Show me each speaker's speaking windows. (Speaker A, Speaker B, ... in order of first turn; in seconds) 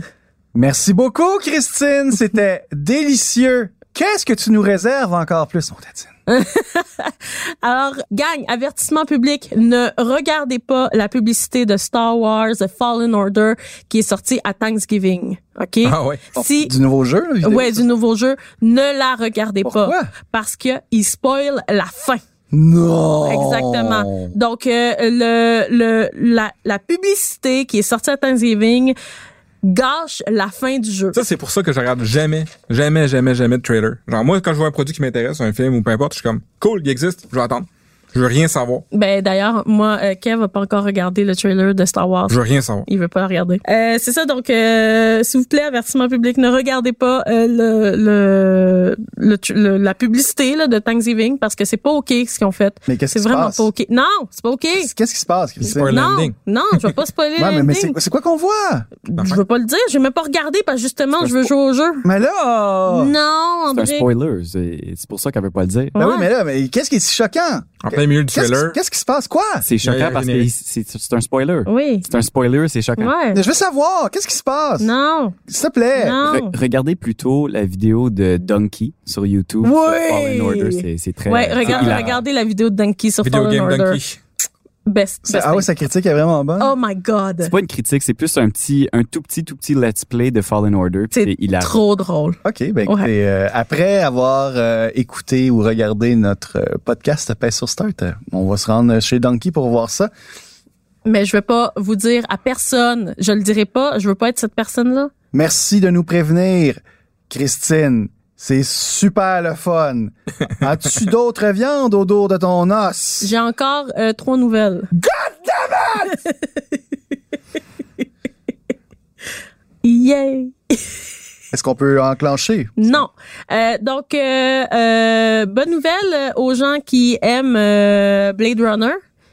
Speaker A: 0.5-6.1, 16.3-17.8, 19.6-20.1, 22.5-24.3, 52.9-53.7, 54.8-55.9, 57.4-58.9, 62.0-63.1, 66.0-69.7, 73.3-74.9, 75.5-76.2, 85.2-86.7, 92.4-100.1, 105.3-113.3, 114.9-116.2, 121.5-123.0
Speaker B: 6.3-16.7, 17.4-22.2, 23.2-28.9, 29.6-31.2, 38.9-54.9, 55.7-58.0, 59.1-62.0, 62.9-64.1, 65.9-66.3, 71.7-72.0, 73.0-73.4, 74.8-75.3, 76.0-76.5, 79.6-84.0, 84.8-85.7, 86.6-87.5, 91.1-93.1, 101.0-105.1, 113.2-114.9, 119.8-120.8, 122.8-129.0
Speaker C: 15.8-16.2, 31.1-38.8, 42.3-42.9, 55.7-56.3, 59.1-59.4, 67.8-68.8, 69.8-70.5, 81.6-82.1, 83.2-84.2
Speaker D: 61.2-61.5, 63.7-65.9, 69.6-73.1, 76.2-82.2, 87.4-91.8